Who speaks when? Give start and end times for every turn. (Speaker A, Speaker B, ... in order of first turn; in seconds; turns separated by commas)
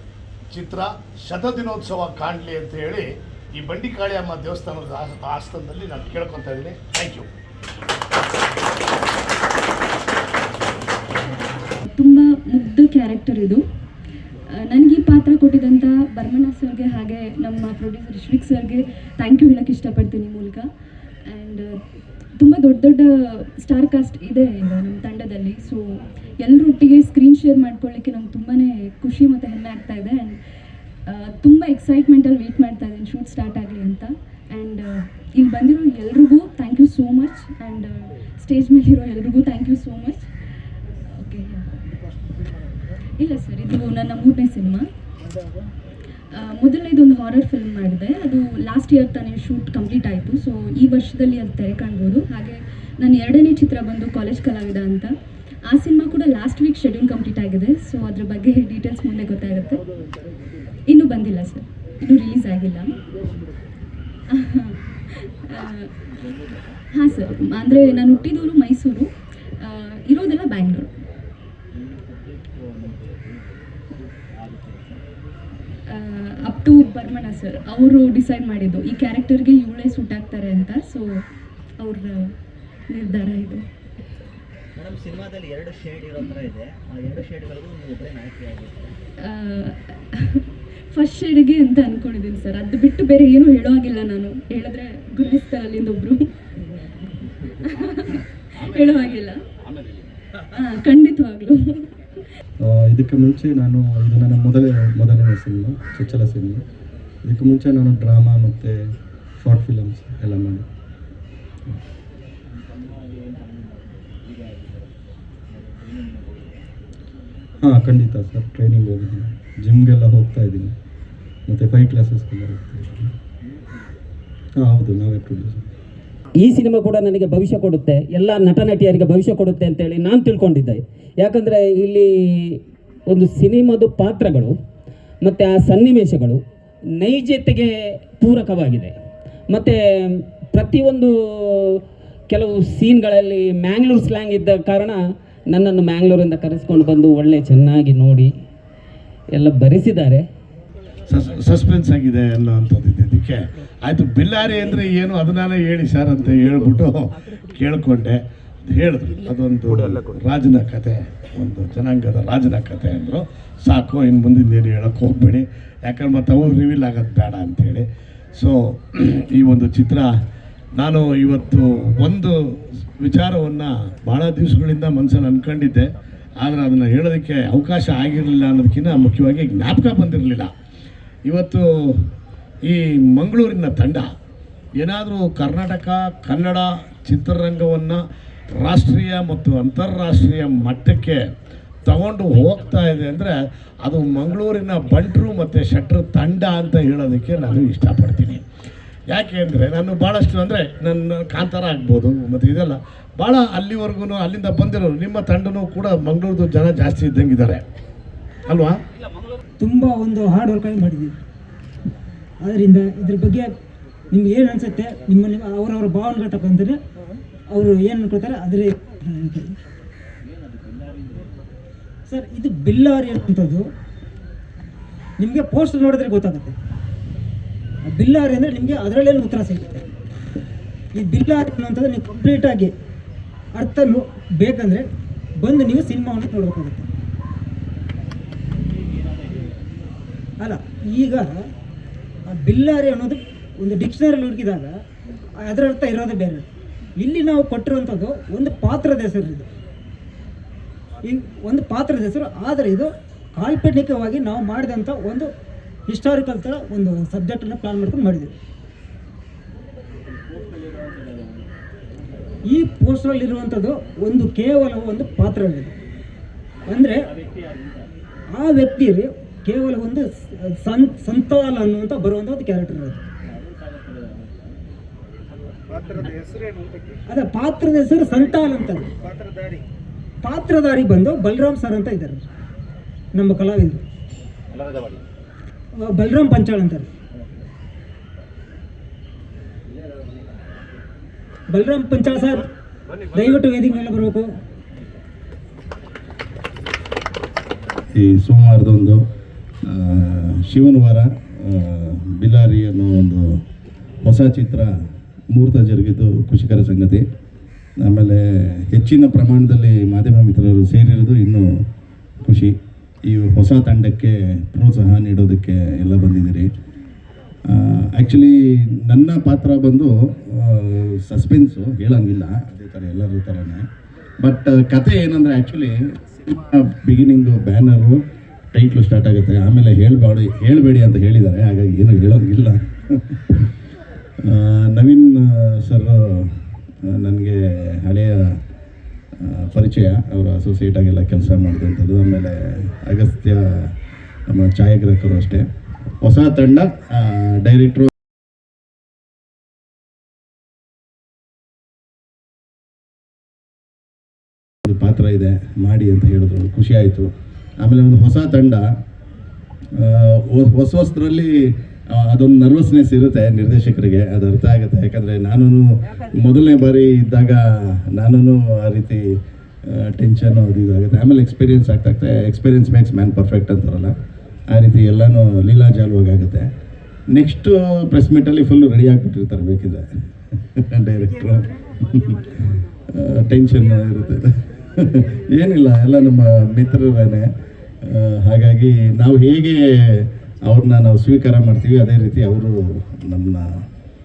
Speaker A: 0.5-7.3, Speaker B: 11.8-13.6, Speaker B: 14.6-20.7, Speaker B: 21.3-21.8, Speaker B: 22.4-30.4, Speaker B: 31.1-40.3, Speaker B: 41.2-41.6, Speaker B: 43.2-44.9, Speaker B: 46.4-55.1, Speaker B: 55.7-59.8, Speaker B: 60.9-63.0, Speaker B: 64.3-65.9, Speaker B: 66.9-69.1, Speaker B: 69.6-70.9, Speaker C: 71.8-75.0, Speaker B: 75.9-81.0, Speaker B: 81.8-82.3, Speaker B: 82.9-83.6, Speaker C: 84.8-89.0, Speaker B: 89.2-96.3, Speaker B: 97.7-99.4, Speaker B: 100.5-101.9, Speaker D: 102.6-106.6, Speaker D: 107.2-110.7, Speaker C: 112.6-114.8, Speaker C: 115.5-116.6, Speaker D: 117.6-120.8, Speaker D: 121.5-123.1, Speaker D: 124.6-125.7, Speaker E: 126.3-134.6, Speaker E: 135.2-136.4, Speaker E: 137.0-138.9, Speaker E: 139.5-148.3, Speaker E: 149.3-150.3, Speaker A: 151.1-170.1, Speaker A: 170.8-175.9, Speaker A: 176.4-180.5, Speaker A: 181.3-182.0, Speaker A: 182.7-184.1, Speaker A: 184.8-188.0, Speaker A: 188.6-191.2, Speaker A: 191.8-198.4, Speaker A: 199.1-207.6, Speaker A: 208.5-208.8, Speaker F: 209.6-211.2, Speaker F: 212.4-213.5, Speaker F: 214.1-216.8, Speaker F: 217.5-219.6, Speaker C: 220.6-221.3, Speaker F: 222.1-223.7, Speaker F: 225.2-226.6, Speaker F: 227.9-229.8, Speaker F: 230.9-232.7, Speaker F: 233.5-234.9, Speaker F: 235.4-236.9, Speaker F: 240.4-241.3, Speaker F: 242.3-244.7, Speaker F: 245.4-246.5, Speaker F: 247.0-249.5, Speaker F: 251.0-255.3, Speaker F: 255.9-258.3, Speaker F: 262.5-265.7, Speaker F: 266.7-267.1, Speaker C: 267.4-267.6, Speaker F: 268.3-273.0, Speaker C: 273.3-274.6, Speaker F: 277.1-278.9, Speaker F: 280.2-282.2, Speaker F: 283.1-283.8, Speaker F: 285.8-286.9, Speaker F: 291.5-292.5, Speaker F: 293.1-294.3, Speaker G: 298.0-299.0, Speaker G: 299.7-303.4, Speaker G: 304.0-304.7, Speaker G: 305.3-307.1, Speaker G: 307.8-311.5, Speaker G: 312.2-316.5, Speaker G: 317.5-323.7, Speaker G: 324.2-333.3, Speaker G: 334.2-338.4, Speaker G: 339.2-343.7, Speaker G: 344.3-345.5, Speaker G: 346.0-347.9, Speaker G: 354.6-357.1, Speaker G: 357.6-358.7, Speaker G: 359.8-369.0, Speaker G: 369.7-373.9, Speaker G: 374.5-376.5, Speaker G: 377.1-379.9, Speaker G: 380.6-382.4, Speaker G: 382.9-387.3, Speaker G: 387.8-393.6